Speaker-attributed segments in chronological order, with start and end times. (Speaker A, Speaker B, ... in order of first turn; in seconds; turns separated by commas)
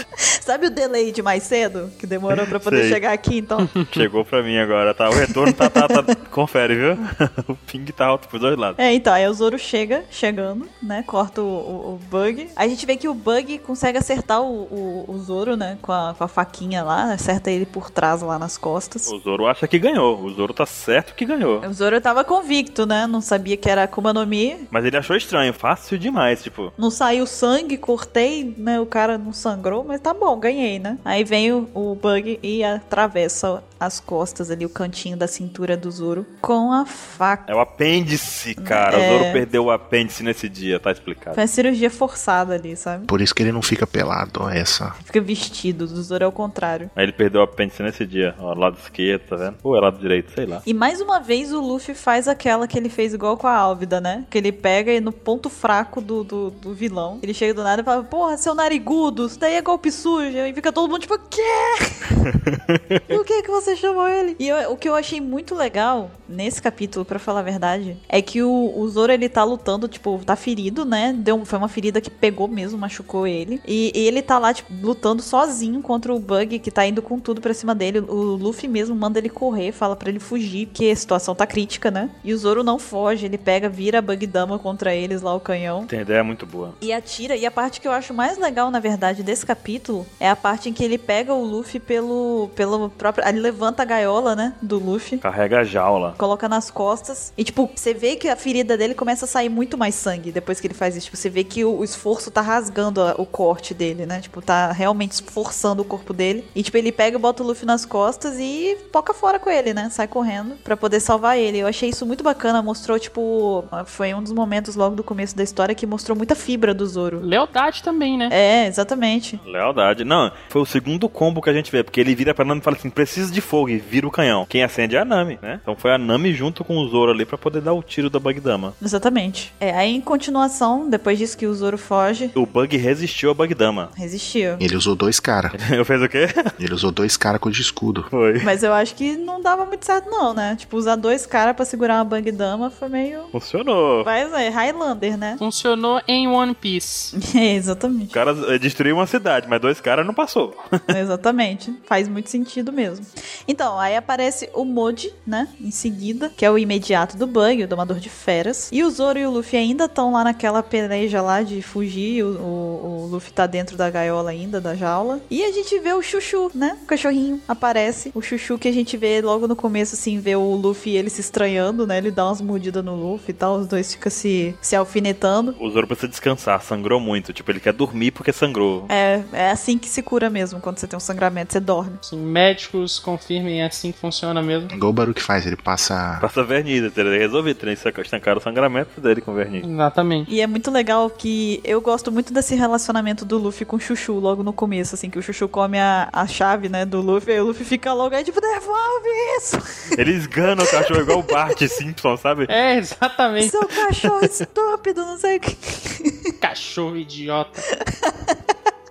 Speaker A: 0.4-3.8, Speaker B: 2.3-3.0, Speaker B: 3.9-8.8, Speaker A: 5.4-6.0, Speaker A: 8.8-19.1, Speaker B: 19.1-21.7, Speaker A: 21.6-24.7, Speaker B: 24.7-26.7, Speaker A: 26.8-37.5, Speaker B: 37.5-41.4, Speaker A: 38.6-39.5, Speaker A: 41.4-43.1, Speaker C: 43.1-45.0, Speaker A: 45.0-46.9, Speaker B: 47.0-50.6, Speaker A: 50.6-62.2, Speaker B: 62.3-63.1, Speaker A: 63.1-85.9, Speaker B: 85.9-86.8, Speaker A: 86.8-95.2, Speaker B: 95.2-96.2, Speaker A: 96.2-117.3, Speaker D: 117.2-118.3, Speaker A: 118.3-119.4, Speaker B: 119.4-128.8, Speaker A: 128.8-132.3, Speaker B: 132.3-133.9, Speaker A: 133.9-134.6, Speaker C: 134.6-135.6, Speaker B: 135.5-136.5, Speaker C: 136.6-138.1, Speaker B: 138.1-138.5, Speaker A: 138.4-143.3, Speaker B: 143.3-144.1, Speaker A: 144.1-145.4, Speaker D: 145.4-147.1, Speaker A: 147.2-148.2, Speaker B: 148.1-150.6, Speaker A: 150.9-175.6, Speaker B: 175.6-178.9, Speaker A: 178.9-182.0, Speaker D: 182.0-184.7, Speaker C: 184.7-186.2, Speaker B: 186.2-189.7, Speaker D: 189.6-190.3, Speaker A: 190.3-200.0, Speaker B: 200.0-202.5, Speaker A: 200.7-201.4, Speaker D: 202.5-203.8, Speaker A: 203.4-206.3, Speaker D: 206.4-207.7, Speaker A: 207.8-208.4